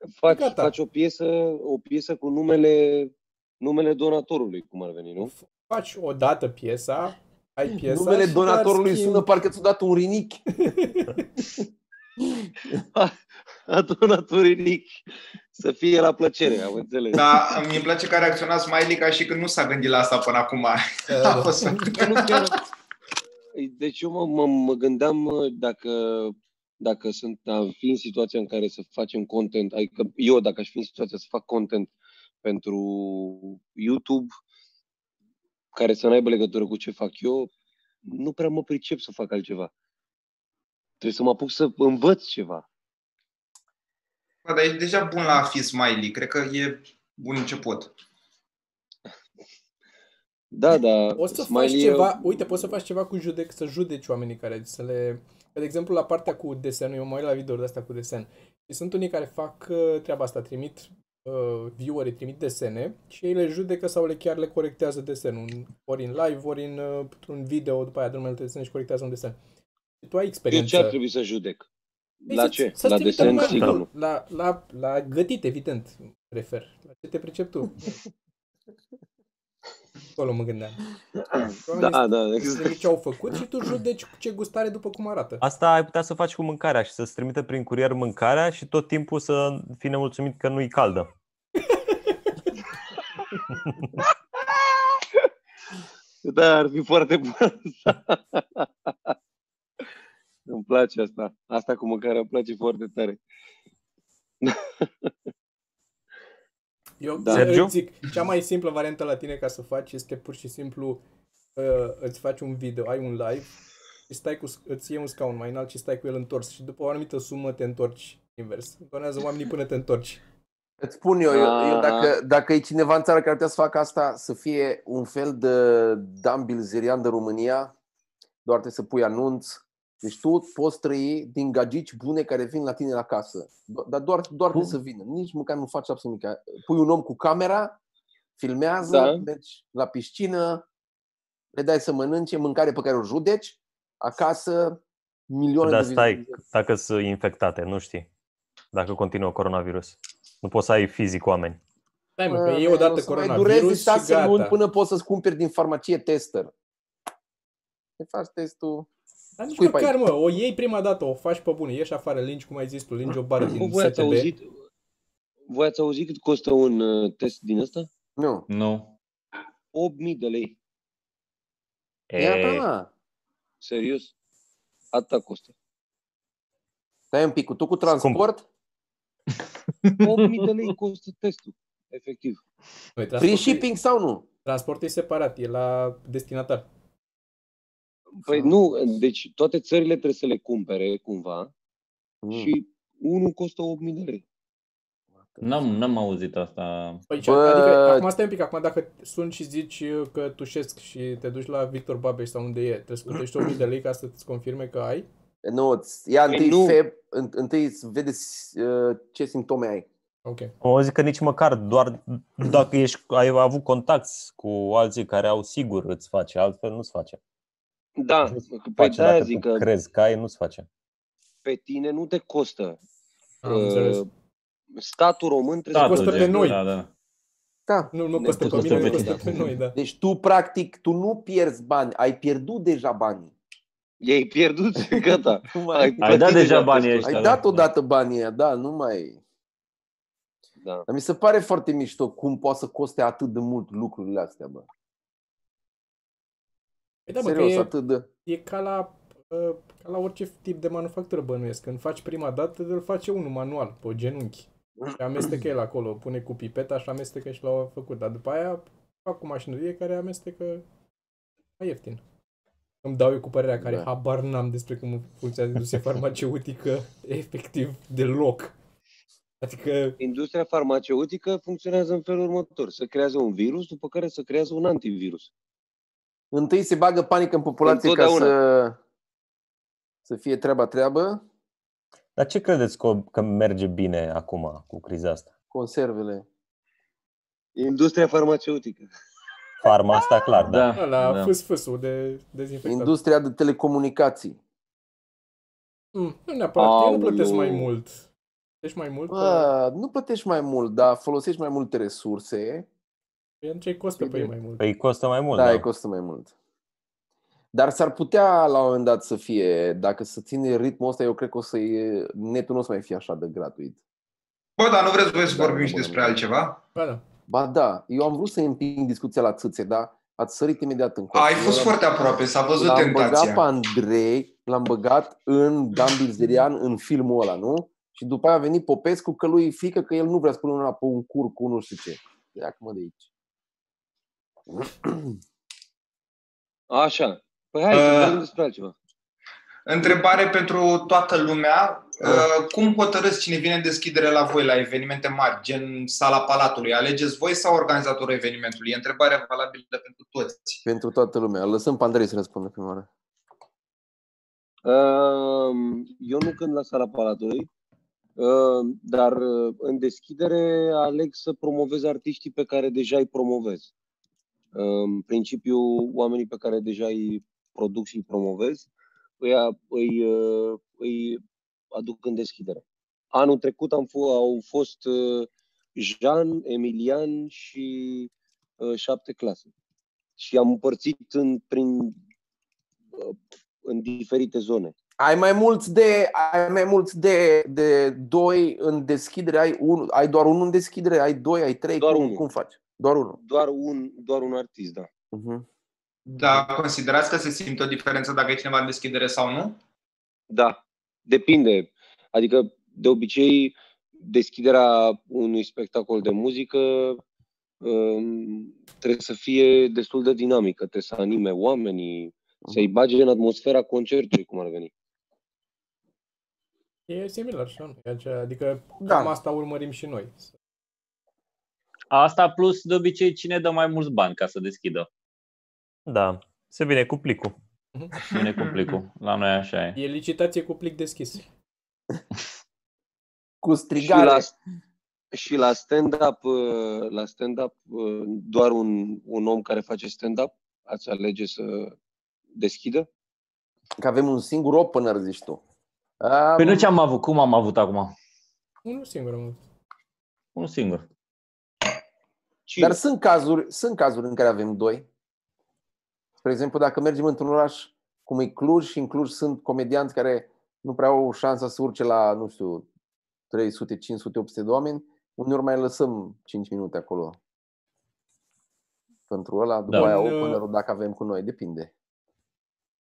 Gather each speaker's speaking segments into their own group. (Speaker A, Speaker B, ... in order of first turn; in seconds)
Speaker A: 0.1-5.3, 12.9-15.0, 15.5-17.4, 21.9-22.6, 23.5-31.9, 32.4-34.3, 35.7-37.5, 38.0-39.7, 41.0-42.6, 50.5-52.7, 70.5-71.7, 72.2-73.8, 81.2-82.8, 95.0-95.2, 96.2-99.1, 100.5-103.2, 104.4-105.1, 107.2-107.5, 121.3-122.1, 138.8-139.2, 163.4-164.5, 165.5-167.9, 169.7-170.6, 173.6-174.1, 174.9-175.5, 180.0-182.4, 188.1-191.5, 192.3-194.2, 206.3-206.8, 218.0-219.7, 221.4-222.8, 223.4-224.0, 224.7-226.3, 234.0-237.4, 240.6-240.8, 270.0-275.3, 277.6-278.3, 287.6-288.9, 296.6-297.7, 336.7-338.7, 354.6-357.5, 358.2-363.7, 364.5-368.7, 369.2-379.5, 380.2-382.0, 382.9-384.7, 391.8-392.2, 393.2-394.9, 400.3-407.0, 407.6-414.7, 433.8-434.3, 435.1-441.8, 442.3-442.9, 452.5-452.8
Speaker B: 0.3-0.7, 5.2-9.2, 10.6-11.2, 21.1-22.0, 51.1-69.4, 70.0-71.0, 72.3-77.8, 80.2-80.9, 81.4-85.4, 107.0-111.0, 111.5-113.5, 114.1-120.2, 152.2-154.6, 159.4-164.3, 183.0-183.6, 184.4-186.7, 197.1-205.1, 210.2-210.5, 223.4-224.0, 225.8-226.6, 227.9-229.8, 247.1-247.7, 248.2-260.6, 261.6-262.0, 262.8-268.5, 269.4-270.0, 290.8-292.9, 295.9-298.1, 298.6-299.5, 303.4-304.7, 316.7-317.0, 416.9-420.3, 429.8-431.2, 448.6-449.4, 469.7-470.4
Speaker C: 7.7-10.4, 12.2-12.8, 120.8-127.7, 128.4-137.8, 138.4-140.6, 141.5-146.4, 152.3-156.5, 158.0-158.9, 159.6-159.9, 168.2-168.4, 172.2-172.9, 177.1-178.4, 183.2-184.2, 192.2-192.5, 195.2-195.6, 197.2-198.1, 205.4-209.9, 227.7-229.2, 229.7-233.3, 234.9-236.4, 237.0-239.2, 240.9-244.7, 247.2-248.1, 263.6-263.9, 276.3-278.8, 280.1-281.2, 285.5-286.2, 292.6-294.4, 299.1-302.7, 304.0-304.3, 305.3-306.3, 307.5-313.8, 315.2-316.2, 317.3-321.8, 322.6-333.1, 334.5-335.1, 342.0-342.3, 350.6-352.9, 385.0-393.2, 395.1-395.4, 418.8-419.1, 433.4-434.3, 443.8-445.4, 446.0-446.7, 452.6-454.9, 456.2-462.7, 463.3-467.2, 469.1-471.7
Speaker D: 17.1-22.6, 44.5-47.9, 314.6-316.6, 321.1-323.4, 337.7-338.2, 339.7-350.6, 396.1-399.6, 428.2-428.7
Speaker E: 73.2-73.8, 85.4-91.1, 107.3-107.7, 145.6-148.1, 148.7-151.6, 177.8-178.2, 210.6-217.2, 218.3-220.7, 282.2-285.3, 289.6-290.7, 304.6-305.6, 425.9-427.3
Speaker F: 168.5-168.9, 172.1-172.6, 179.8-180.5, 195.4-197.0, 225.7-226.9, 228.3-229.5, 236.0-237.7, 290.5-291.3, 421.9-424.9, 428.1-429.8, 446.4-447.9, 450.3-450.8